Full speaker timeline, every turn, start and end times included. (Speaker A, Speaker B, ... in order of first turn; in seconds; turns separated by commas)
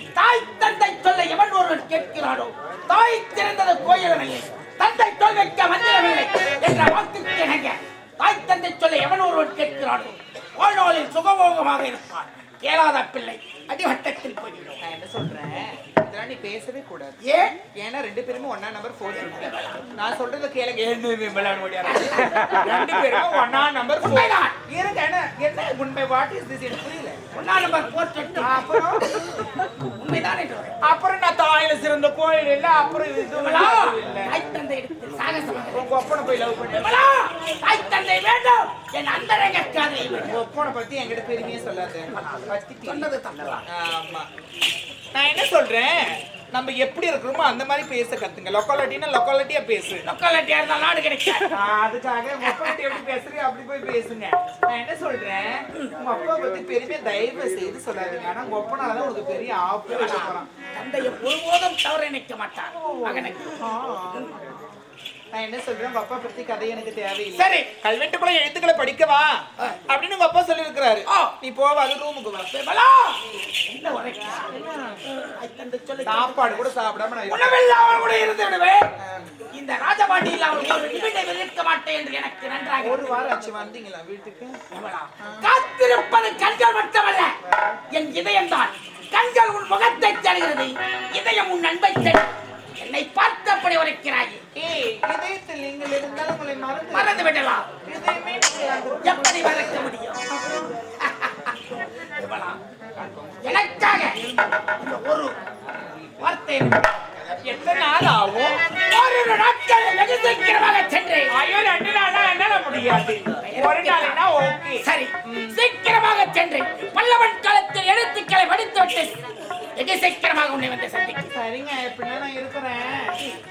Speaker A: 0.2-14.8, Speaker B: 14.8-17.1, Speaker A: 17.2-17.6, Speaker B: 17.7-27.2, Speaker A: 19.1-19.9, Speaker A: 21.9-22.8, Speaker A: 24.0-24.6, Speaker A: 27.3-29.1, Speaker B: 28.4-29.1, Speaker A: 30.0-30.8, Speaker B: 30.8-34.3, Speaker A: 33.4-35.9, Speaker B: 35.7-37.0, Speaker A: 36.7-40.4, Speaker B: 40.3-43.1, Speaker A: 42.1-43.6, Speaker B: 43.7-44.2, Speaker B: 45.1-50.1, Speaker A: 50.0-51.6, Speaker B: 51.5-60.5, Speaker A: 52.4-52.8, Speaker A: 59.9-63.6, Speaker B: 62.8-64.4, Speaker B: 65.3-69.4, Speaker A: 67.3-67.7, Speaker B: 69.9-72.5, Speaker A: 71.1-71.3, Speaker A: 72.5-74.5, Speaker B: 74.5-75.0, Speaker A: 75.1-76.7, Speaker B: 76.0-77.5, Speaker A: 77.3-78.8, Speaker B: 79.0-79.3, Speaker A: 79.5-83.2, Speaker B: 82.8-84.6, Speaker A: 84.7-87.3, Speaker B: 87.5-87.8, Speaker A: 87.9-94.4, Speaker B: 94.5-97.3, Speaker A: 96.9-97.7, Speaker B: 97.8-99.9, Speaker A: 99.0-100.2, Speaker A: 101.0-101.6, Speaker A: 102.2-102.6, Speaker B: 103.0-103.6, Speaker A: 103.4-104.2, Speaker A: 104.8-105.3, Speaker A: 106.2-106.9, Speaker B: 107.4-108.6, Speaker A: 108.8-111.3, Speaker B: 111.3-115.6, Speaker A: 113.4-114.2, Speaker A: 114.8-119.1, Speaker A: 119.8-121.3, Speaker B: 121.3-123.1